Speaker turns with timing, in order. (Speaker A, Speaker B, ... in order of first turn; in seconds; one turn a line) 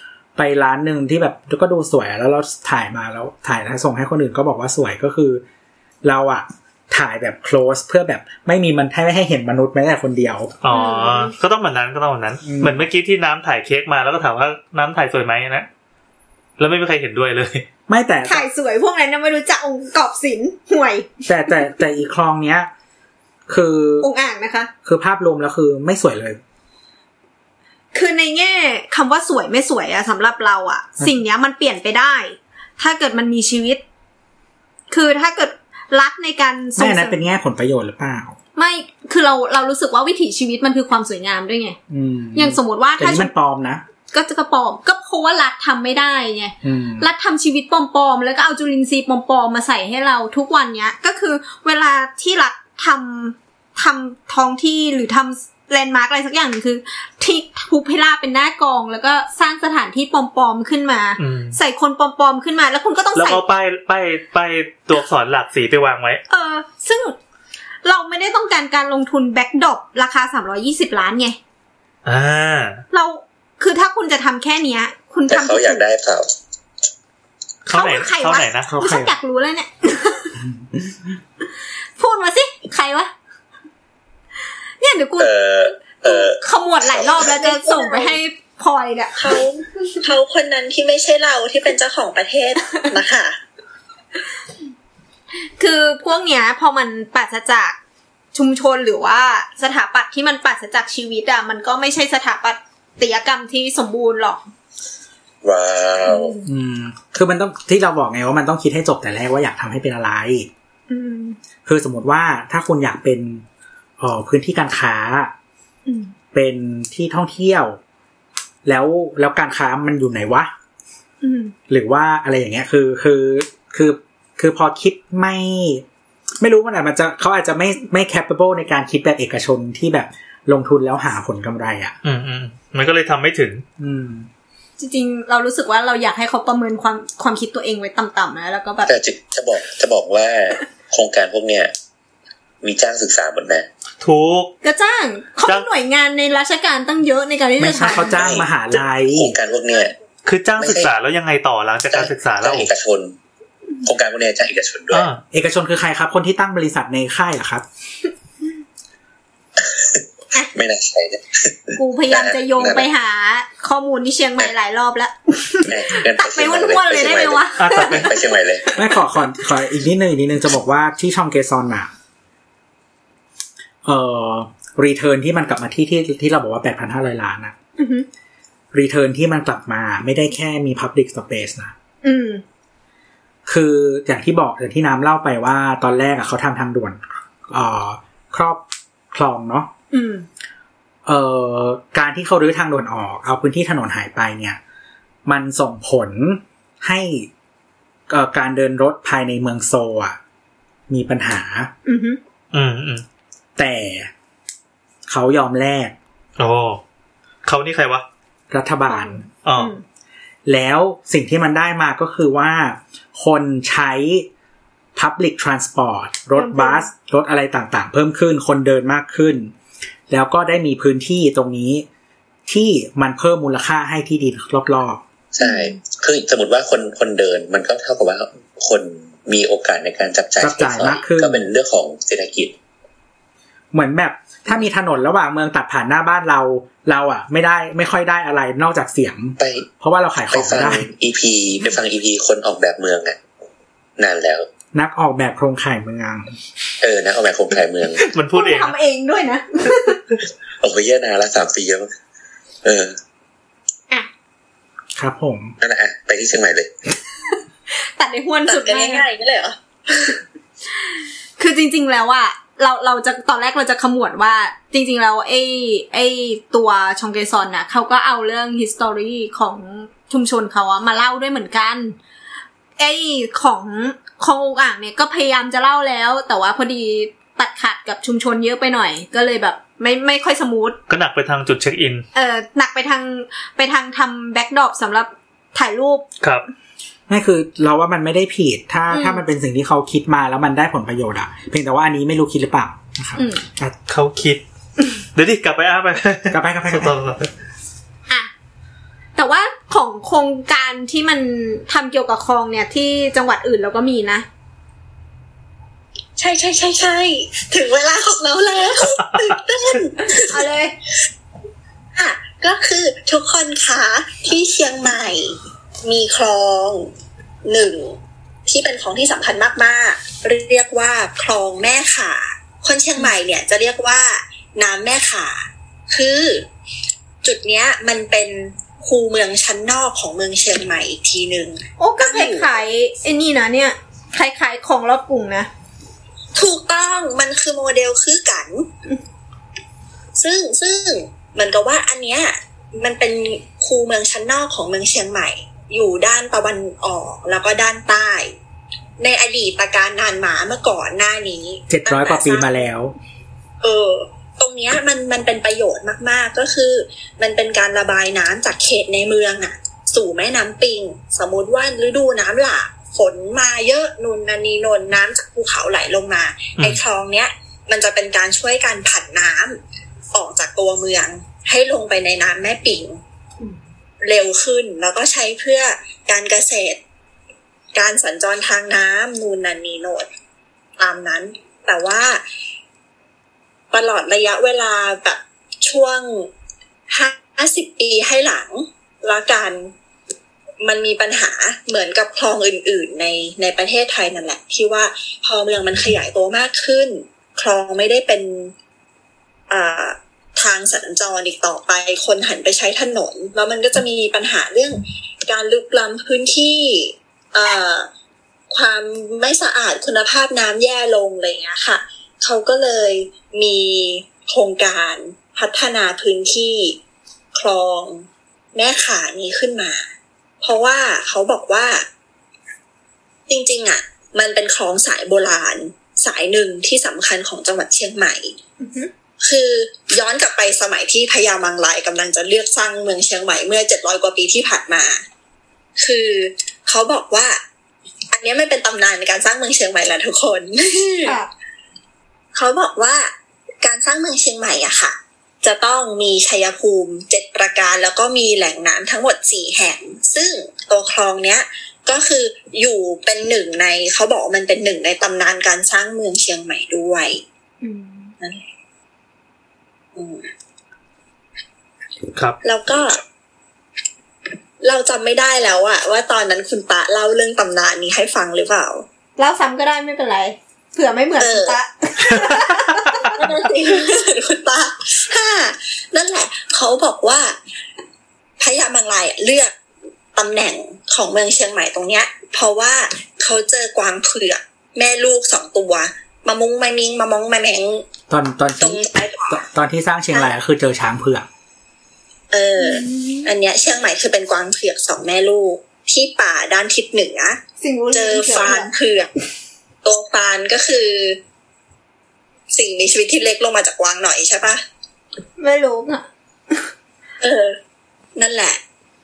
Speaker A: 0.3-5.4
Speaker A: 6.0-10.5
Speaker B: 10.6-15.7
Speaker C: 10.7-11.3
Speaker A: 12.4-12.8
Speaker B: 16.6-17.6
Speaker A: 17.9-18.5
Speaker C: 18.2-21.6
Speaker A: 21.3-22.7
Speaker A: 23.5-24.1
Speaker C: 24.0-24.7
Speaker A: 24.8-26.4
Speaker C: 27.9-33.8
Speaker C: 34.9-37.2
Speaker A: 36.8-38.4
Speaker C: 38.5-41.8
Speaker A: 41.9-43.8
Speaker C: 42.3-43.3
Speaker C: 44.1-63.4
Speaker A: 46.6-47.1
Speaker B: 61.2-61.6
Speaker B: 63.1-66.2
Speaker C: 66.3-67.2
Speaker C: 67.8-71.4
Speaker B: 72.0-72.8
Speaker C: 72.9-75.8
Speaker D: 75.3-76.3
Speaker B: 77.6-78.7
Speaker C: 77.7-80.4
Speaker A: 78.7-79.1
Speaker C: 82.0-83.1
Speaker C: 84.8-85.3
Speaker D: 85.2-87.3
Speaker C: 86.0-89.3
Speaker E: 87.3-88.2
Speaker E: 89.2-93.4
Speaker C: 95.6-97.8
Speaker C: 98.3-104.5
Speaker D: 105.4-106.3
Speaker C: 106.0-106.4
Speaker A: 106.4-110.5
Speaker C: 110.9-111.4
Speaker A: 111.7-113.4
Speaker A: 114.0-115.3
Speaker C: 115.8-116.1
Speaker A: 116.3-117.8
Speaker A: 118.6-120.5
Speaker C: 121.2-121.5
Speaker A: 121.7-125.8
Speaker A: 126.4-132.0
Speaker B: 132.0-133.6
Speaker A: 133.8-134.3
Speaker C: 134.8-138.9
Speaker D: 138.8-141.7
Speaker D: 142.6-143.7
Speaker B: 144.0-144.5
Speaker C: 144.6-148.2
Speaker A: 147.6-149.3
Speaker D: 147.9-149.9
Speaker B: 150.2-152.7
Speaker D: 150.6-150.9
Speaker D: 151.9-153.2
Speaker D: 153.8-155.1
Speaker B: 154.9-155.2
Speaker A: 155.3-157.6
Speaker D: 159.6-160.0
Speaker D: 160.5-162.9
Speaker C: 161.8-168.2
Speaker D: 165.6-168.8
Speaker B: 167.6-168.1
Speaker A: 168.7-171.9
Speaker A: 173.8-177.5
Speaker C: 177.8-178.1
Speaker A: 178.7-181.7
Speaker C: 182.0-182.4
Speaker A: 183.4-189.7
Speaker C: 189.9-190.2
Speaker A: 191.0-194.6
Speaker A: 195.2-197.3
Speaker A: 198.1-200.2
Speaker A: 200.9-201.7
Speaker C: 201.8-202.2
Speaker B: 202.5-203.0
Speaker A: 203.6-204.1
Speaker A: 205.1-205.9
Speaker B: 206.4-206.8
Speaker B: 207.4-208.0
Speaker A: 208.5-209.2
Speaker C: 208.9-209.8
Speaker B: 209.4-209.7
Speaker A: 210.4-214.3
Speaker A: 214.9-219.5
Speaker C: 216.3-216.9
Speaker A: 220.1-221.8
Speaker A: 222.5-225.0
Speaker D: 225.3-232.5
Speaker C: 225.4-225.8
Speaker A: 230.4-231.4
Speaker A: 233.7-240.9
Speaker D: 239.4-239.7
Speaker D: 240.3-243.2
Speaker D: 244.0-244.5
Speaker A: 244.7-246.3
Speaker D: 246.8-248.0
Speaker B: 248.0-248.7
Speaker C: 248.3-250.0
Speaker D: 250.6-251.9
Speaker D: 252.6-253.0
Speaker A: 254.9-255.5
Speaker D: 255.6-256.7
Speaker C: 257.7-259.0
Speaker E: 258.5-260.2
Speaker C: 261.4-272.0
Speaker C: 272.8-280.8
Speaker B: 280.9-282.0
Speaker C: 282.1-286.0
Speaker A: 287.1-293.7
Speaker C: 288.9-289.2
Speaker C: 293.1-293.4
Speaker B: 293.9-294.4
Speaker B: 295.1-297.3
Speaker A: 296.3-296.9
Speaker C: 299.1-304.2
Speaker E: 306.2-310.4
Speaker C: 310.1-310.7
Speaker E: 311.9-316.9
Speaker E: 317.4-326.4
Speaker E: 327.2-332.6
Speaker C: 331.8-335.5
Speaker E: 336.3-338.7
Speaker E: 340.2-348.3
Speaker E: 349.0-352.6
Speaker A: 351.7-352.9
Speaker E: 353.6-369.6
Speaker E: 370.1-373.0
Speaker E: 374.0-376.8
Speaker E: 377.7-380.1
Speaker E: 380.8-382.2
Speaker E: 383.7-386.3
Speaker E: 386.9-389.7
Speaker E: 390.6-398.5
Speaker E: 399.5-407.9
Speaker E: 408.5-416.8
Speaker E: 417.3-419.9
Speaker E: 420.4-421.9
Speaker E: 423.3-428.3
Speaker C: 428.6-428.9
Speaker E: 429.2-435.0
Speaker E: 435.8-437.4
Speaker E: 438.1-441.2
Speaker C: 441.0-441.3
Speaker E: 442.3-443.1
Speaker E: 443.6-457.2
Speaker C: 457.6-458.1
Speaker E: 458.2-458.4
Speaker E: 459.9-460.3
Speaker E: 462.4-463.0
Speaker E: 464.6-468.9
Speaker C: 469.2-473.8
Speaker E: 471.2-471.6
Speaker E: 473.0-477.4
Speaker E: 478.4-479.5
Speaker E: 480.1-487.8
Speaker A: 488.1-491.3
Speaker E: 488.6-489.4
Speaker E: 492.3-497.4
Speaker C: 492.6-493.3
Speaker C: 497.6-498.7
Speaker E: 497.9-499.1
Speaker E: 499.8-501.2
Speaker E: 502.5-504.6
Speaker C: 505.4-506.6
Speaker E: 507.2-507.6
Speaker E: 508.1-508.6